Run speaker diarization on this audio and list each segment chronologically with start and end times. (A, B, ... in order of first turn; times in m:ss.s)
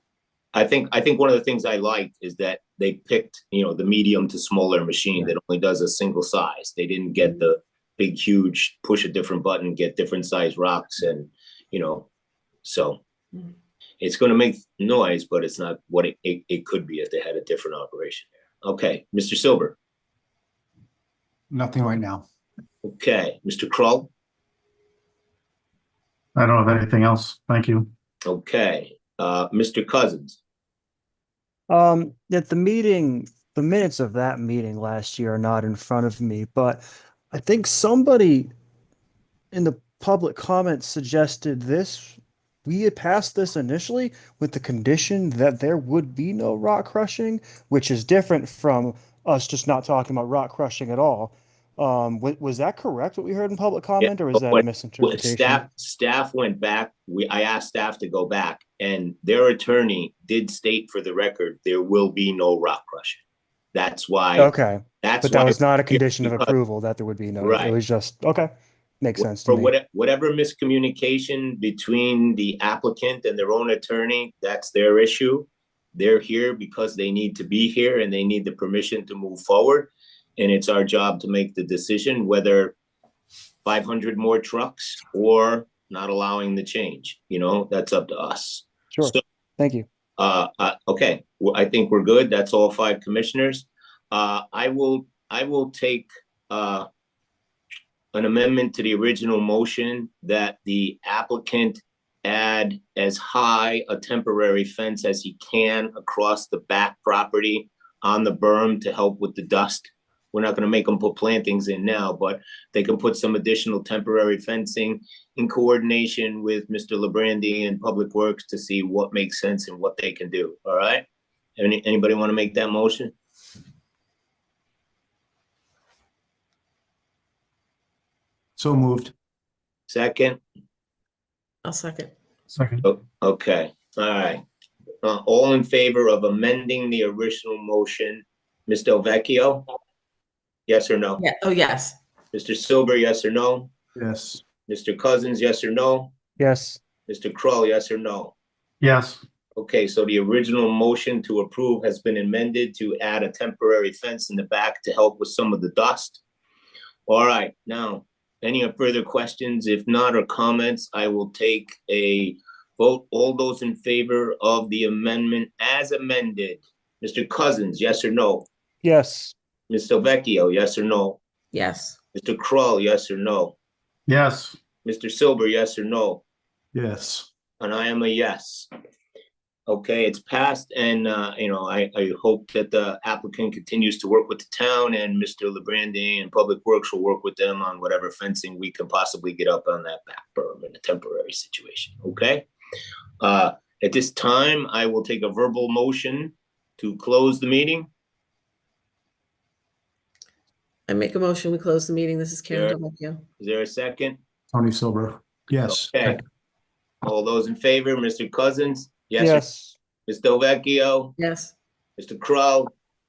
0:00.5-0:12.1 A
0:12.6-0:13.0 A
0:14.0-0:19.8 A
0:21.5-0:22.2 B
0:22.8-0:24.1 A
0:26.3-0:27.9 C
0:28.2-0:30.4 A
0:31.7-0:38.5 D
0:39.5-0:55.6 D
0:54.0-1:03.2 A
1:03.7-1:04.5 A
1:04.4-1:09.7 D
1:05.0-1:06.5 A
1:07.4-1:07.8 A
1:09.2-1:22.8 A
1:23.6-1:29.2 A
1:28.9-1:29.8 D
1:30.2-1:36.9 A
1:38.1-2:01.0 A
2:01.6-2:03.1 A
2:08.6-2:09.1 B
2:09.9-2:10.4 A
2:11.6-2:12.1 E
2:12.5-2:12.8 C
2:12.8-2:14.4 A
2:15.0-2:19.7 A
2:20.7-2:21.2 A
2:21.2-2:22.0 E
2:22.3-2:23.7 A
2:24.0-2:24.4 C
2:24.7-2:26.1 A
2:26.4-2:26.8 D
2:27.1-2:28.3 A
2:28.8-2:29.2 C
2:29.6-2:36.2 A
2:37.1-2:48.5 A
2:48.8-2:49.3 D
2:49.7-2:51.2 A
2:51.5-2:52.0 E
2:52.1-2:53.5 A
2:54.1-2:54.6 C
2:54.8-2:56.2 A
2:56.7-2:57.3 C
2:57.6-2:58.7 A
2:59.7-3:12.4 A
3:13.2-3:17.9 A
3:20.9-3:23.2 E
3:22.5-3:22.8 A
3:23.4-3:24.2 A
3:24.5-3:26.2 C
3:24.6-3:25.7 B
3:25.7-3:26.2 A
3:27.0-3:29.4 A
3:29.2-3:29.8 D
3:30.1-3:31.1 A
3:31.2-3:31.5 E
3:32.0-3:32.7 A